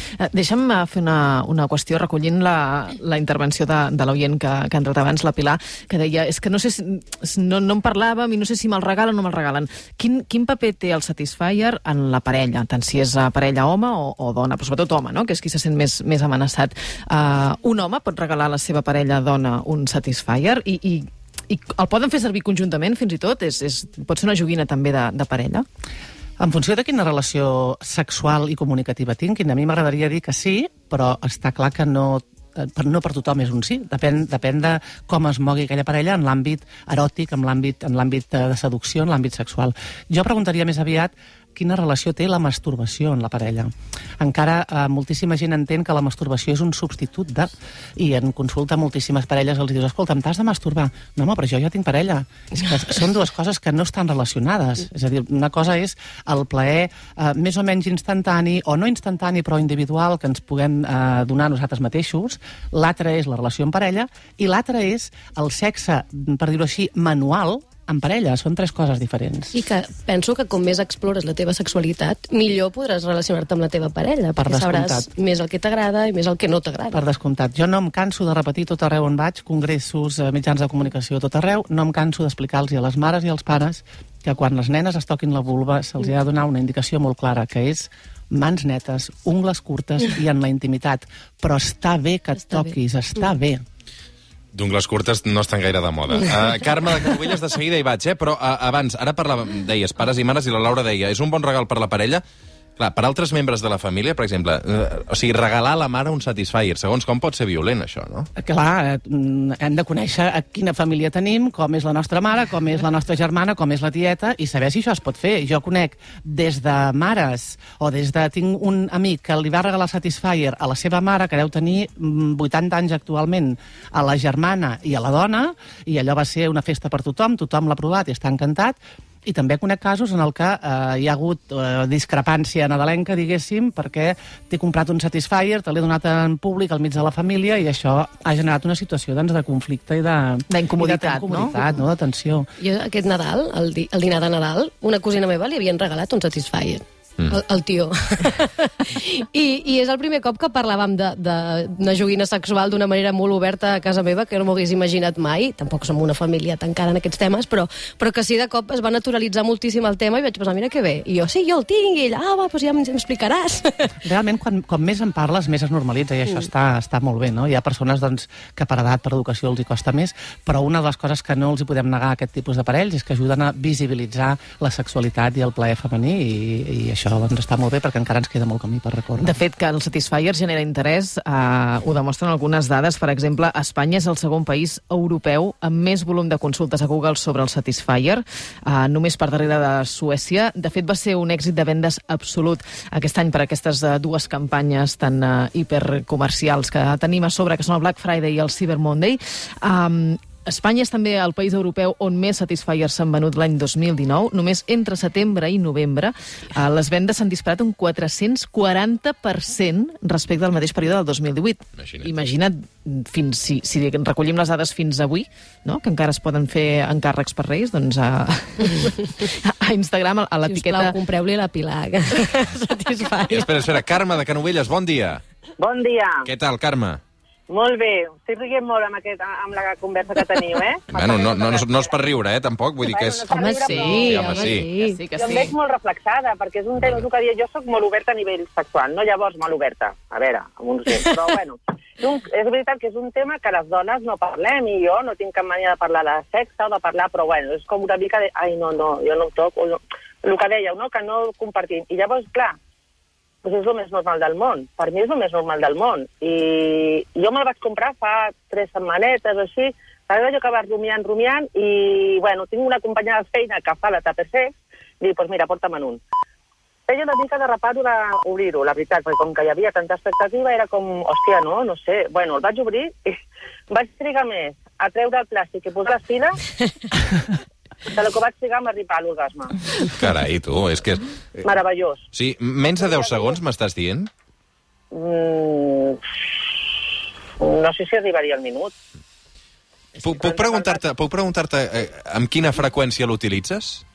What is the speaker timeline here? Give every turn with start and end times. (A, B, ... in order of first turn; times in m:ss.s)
0:00.2-0:25.6 A
0:26.4-1:09.5 B
1:09.5-1:17.0 C
1:14.4-1:15.1 B
1:16.9-1:33.6 B
1:34.5-1:42.2 D
1:42.8-1:48.3 D
1:48.4-2:22.5 B
2:20.5-2:21.6 A
2:22.6-2:43.9 C
2:44.0-2:59.4 B
2:59.2-3:41.0 A
3:31.8-3:32.1 D
3:40.5-3:43.7 C
3:43.3-3:45.2 D
3:45.6-3:46.3 E
3:46.2-3:47.0 D
3:47.5-3:51.9 E
3:50.9-3:53.3 D
3:52.8-3:54.2 E
3:53.3-3:55.0 C
3:53.4-3:55.5 A
3:54.0-3:54.7 D
3:55.2-4:12.6 E
4:13.4-4:26.0 E
4:26.9-4:36.4 E
4:37.9-4:39.9 E
4:39.9-4:41.4 D
4:41.4-4:42.0 E
4:42.1-4:44.1 D
4:42.8-4:43.4 E
4:44.9-4:46.0 E
4:47.4-4:48.7 E
4:50.0-4:50.8 E
4:50.0-4:53.8 D